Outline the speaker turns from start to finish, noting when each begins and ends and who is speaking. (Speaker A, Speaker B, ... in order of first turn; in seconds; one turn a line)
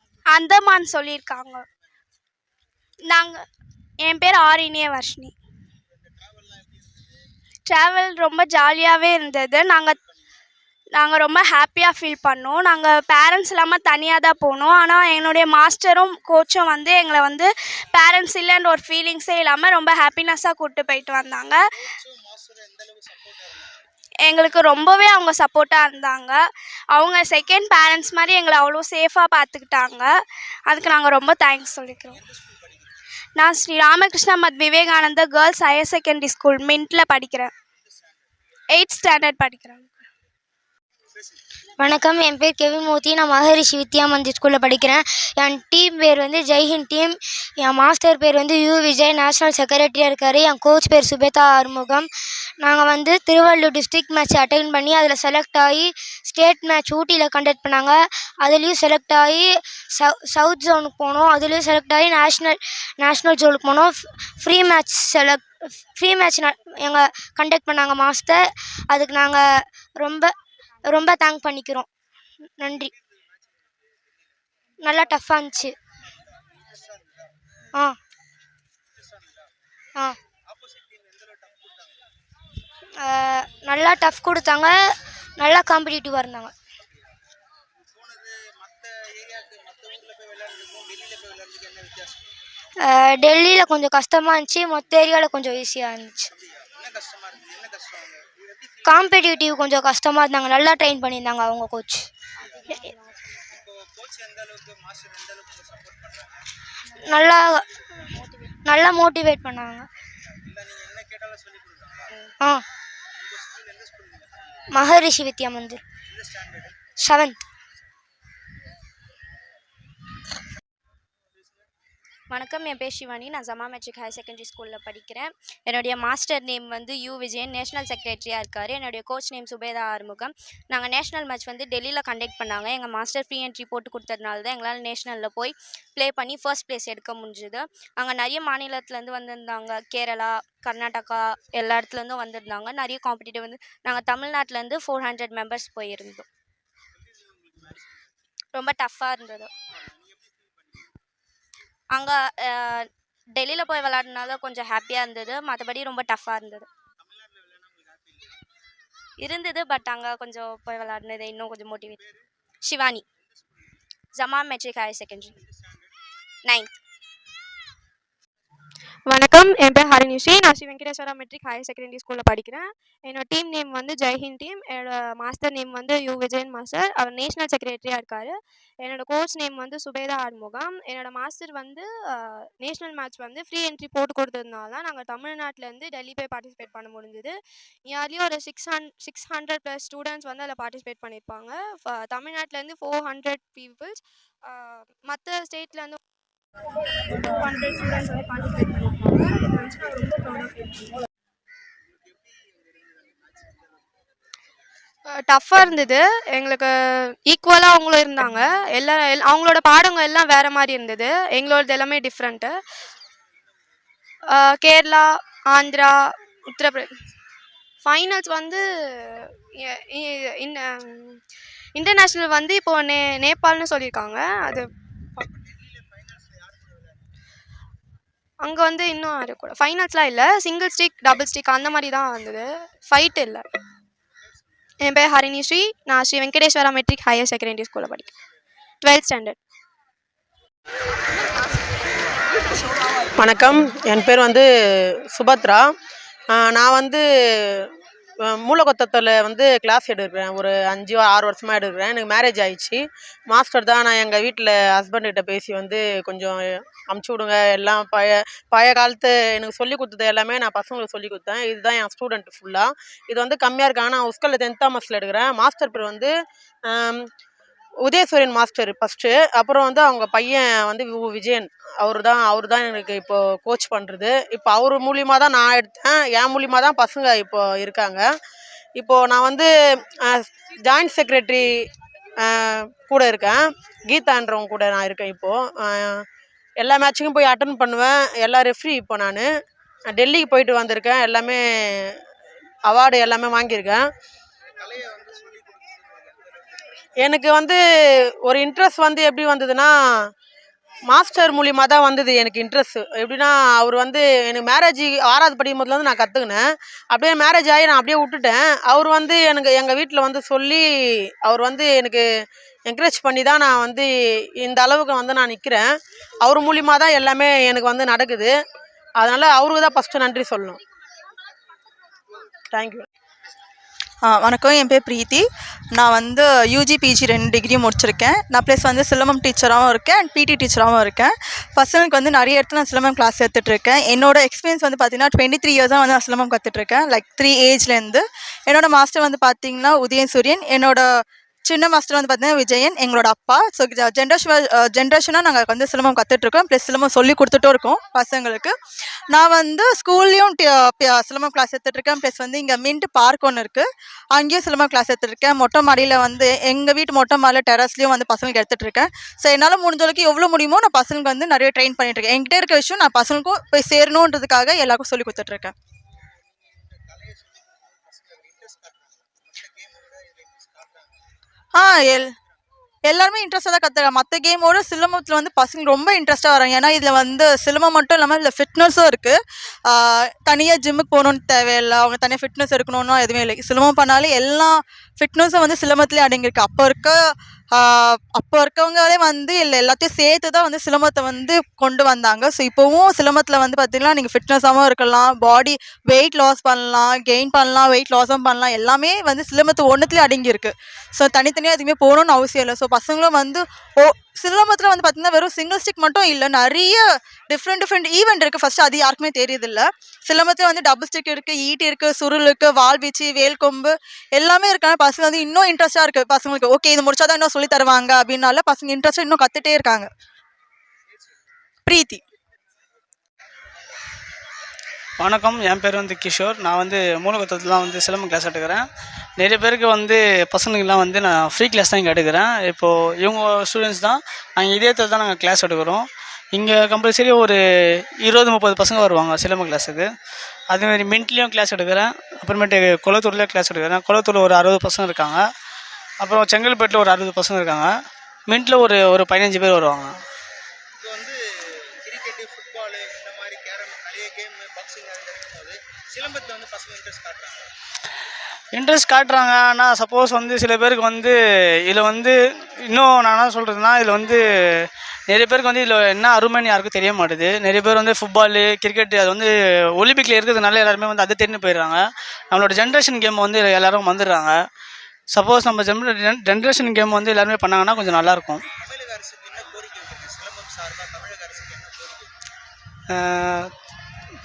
Speaker A: 0.3-1.6
Speaker B: 0.4-0.9
Speaker A: 3.1-3.4
Speaker A: 4.0-5.3
Speaker B: 5.9-7.3
Speaker A: 7.7-10.0
Speaker A: 11.0-21.6
Speaker B: 21.9-23.7
Speaker A: 24.3-26.4
Speaker A: 26.9-30.1
Speaker A: 30.7-32.2
Speaker B: 32.2-32.9
Speaker A: 33.4-37.5
Speaker A: 38.7-39.9
Speaker C: 41.8-52.1
Speaker C: 52.6-65.4
Speaker C: 65.9-69.5
Speaker C: 70.0-70.3
Speaker C: 70.8-71.9
Speaker C: 72.6-72.9
Speaker B: 72.8-74.3
Speaker C: 74.8-75.8
Speaker B: 76.1-77.4
Speaker B: 78.9-79.5
Speaker B: 80.5-82.0
Speaker C: 83.0-84.8
Speaker C: 85.4-86.5
Speaker B: 86.8-87.1
Speaker B: 87.8-92.3
Speaker C: 92.8-96.3
Speaker B: 96.3-99.6
Speaker C: 98.8-102.1
Speaker B: 102.4-102.9
Speaker B: 103.5-106.4
Speaker C: 107.0-107.6
Speaker C: 108.7-109.9
Speaker B: 110.3-112.2
Speaker B: 113.2-114.6
Speaker C: 114.7-115.8
Speaker B: 116.1-116.8
Speaker C: 117.0-117.4
Speaker B: 121.3-121.7
Speaker D: 122.3-146.2
Speaker B: 147.0-148.1
Speaker D: 148.5-149.5
Speaker B: 149.7-151.0
Speaker D: 151.9-152.8
Speaker D: 153.3-156.7
Speaker B: 157.0-158.4
Speaker D: 159.2-162.0
Speaker B: 161.9-162.2
Speaker D: 162.6-163.0
Speaker B: 163.1-163.8
Speaker D: 164.1-165.4
Speaker B: 165.3-165.9
Speaker D: 166.4-166.8
Speaker E: 169.1-187.3
Speaker E: 187.9-196.0
Speaker B: 201.8-204.0
Speaker E: 205.1-206.7
Speaker E: 207.3-212.6
Speaker E: 214.3-216.9
Speaker E: 217.8-218.6
Speaker E: 219.7-221.2
Speaker E: 221.8-224.7
Speaker B: 225.2-227.1
Speaker E: 228.4-233.4
Speaker B: 234.2-234.4
Speaker E: 234.8-238.1
Speaker E: 238.8-239.4
Speaker F: 243.2-244.5
Speaker F: 245.1-245.7
Speaker F: 246.3-247.0
Speaker F: 248.3-266.1
Speaker F: 266.7-267.0
Speaker F: 267.9-278.1
Speaker F: 278.8-279.5
Speaker F: 280.0-281.5
Speaker F: 282.2-286.0
Speaker F: 286.6-289.3
Speaker F: 289.9-291.4
Speaker F: 292.7-293.8
Speaker B: 294.6-296.7
Speaker F: 297.0-297.6
Speaker F: 298.2-299.7
Speaker F: 300.9-310.6
Speaker F: 311.2-312.1
Speaker F: 312.7-315.7
Speaker F: 316.2-318.4
Speaker F: 319.0-320.6
Speaker F: 322.5-322.8
Speaker G: 324.1-348.5
Speaker G: 349.1-365.5
Speaker B: 365.9-371.0
Speaker G: 371.6-372.1
Speaker G: 372.9-379.2
Speaker G: 379.7-387.0
Speaker G: 387.5-419.9
Speaker B: 420.9-421.3
Speaker G: 421.7-422.0
Speaker H: 425.0-428.7
Speaker H: 429.2-437.4
Speaker H: 438.0-439.9
Speaker H: 440.5-445.2
Speaker H: 446.0-447.7
Speaker H: 448.3-449.9
Speaker B: 450.8-451.2
Speaker B: 451.8-457.5
Speaker H: 458.5-462.2
Speaker H: 462.7-474.4
Speaker H: 475.1-478.4
Speaker B: 478.5-482.1
Speaker H: 482.9-483.5